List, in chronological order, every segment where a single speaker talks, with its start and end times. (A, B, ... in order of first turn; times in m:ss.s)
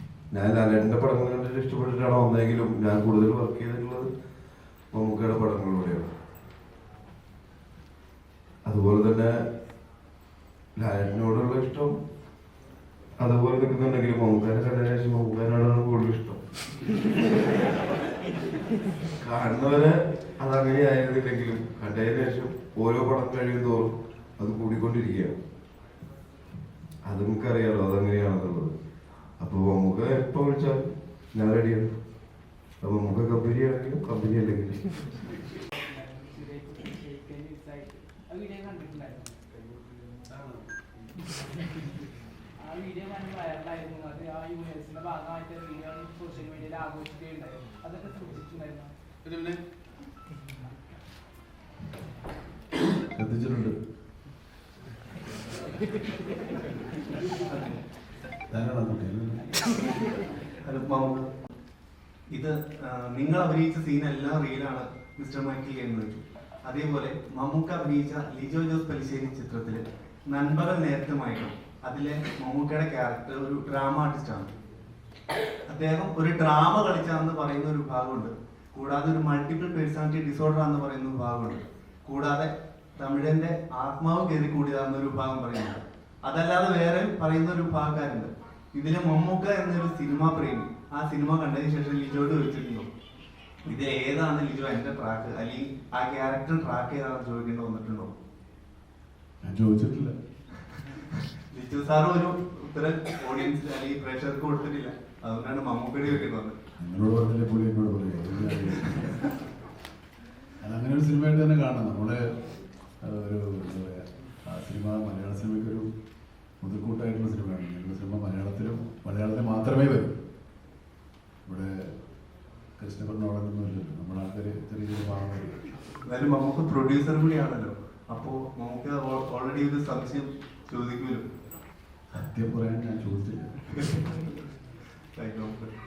0:00.3-0:04.1 A
0:04.9-0:06.1 A
0:08.7-0:09.3 A
0:10.8-0:11.9 A
0:13.2-0:16.4 A
0:19.2-0:25.4 A
0:27.1-0:28.7 A
0:29.4-0:31.9 A
0:32.8-0:34.8 A
0:35.8-0:39.5 B
0:42.6-0:48.9 B
0:53.2-0:53.8 C
0:57.5-0:57.8 D
0:58.5-0:59.5 C
1:00.6-1:01.3 D
1:02.3-1:14.5 D
1:15.7-1:32.9 D
1:33.6-1:38.1 D
1:39.4-1:40.2 C
1:41.5-1:46.6 D
1:46.8-1:49.2 C
1:50.6-1:52.2 C
1:53.0-1:55.9 C
1:56.6-2:00.2 C
2:01.4-2:01.7 C
2:02.8-2:05.6 C
2:06.1-2:11.2 D
2:12.1-2:13.5 C
2:15.2-2:15.7 D